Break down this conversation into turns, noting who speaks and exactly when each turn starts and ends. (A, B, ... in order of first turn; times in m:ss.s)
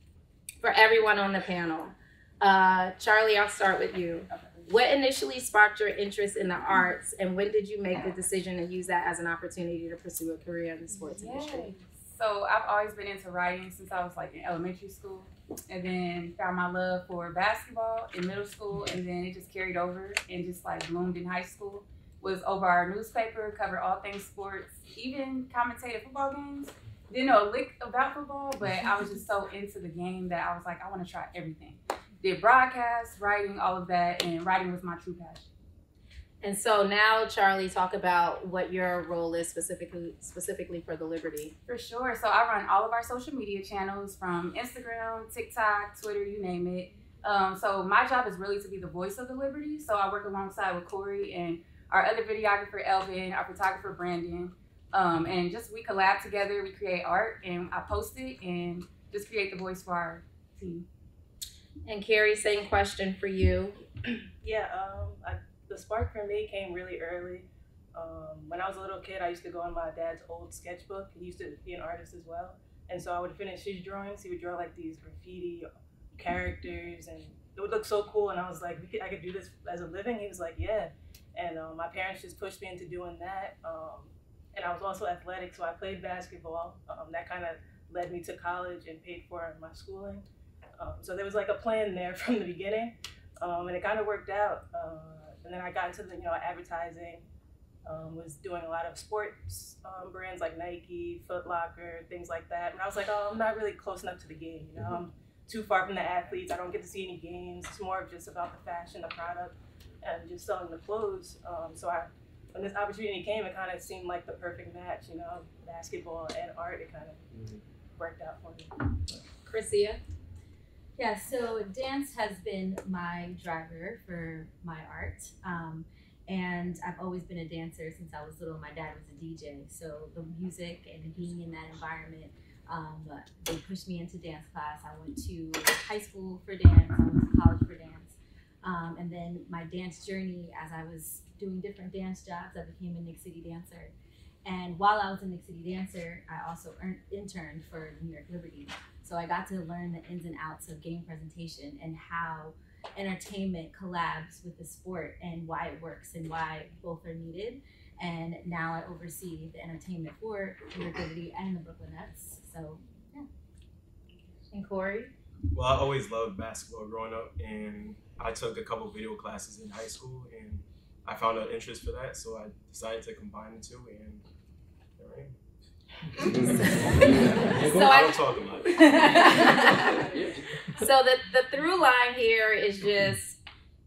0:00.6-0:11.7 A
0:04.3-0:04.7 B
0:10.9-0:35.5 B
0:36.4-0:41.6 A
0:41.7-1:00.8 B
1:01.8-1:03.8 A
1:04.4-1:30.2 C
1:30.8-1:37.2 C
1:37.8-1:57.2 C
1:58.0-1:58.8 C
1:59.4-2:00.0 A
2:01.0-2:23.9 D
2:24.4-2:43.3 D
2:44.5-2:45.1 A
2:45.5-2:54.2 E
2:55.0-2:55.3 E
2:56.3-2:59.8 E
2:56.6-3:00.0 A
3:00.8-3:03.4 A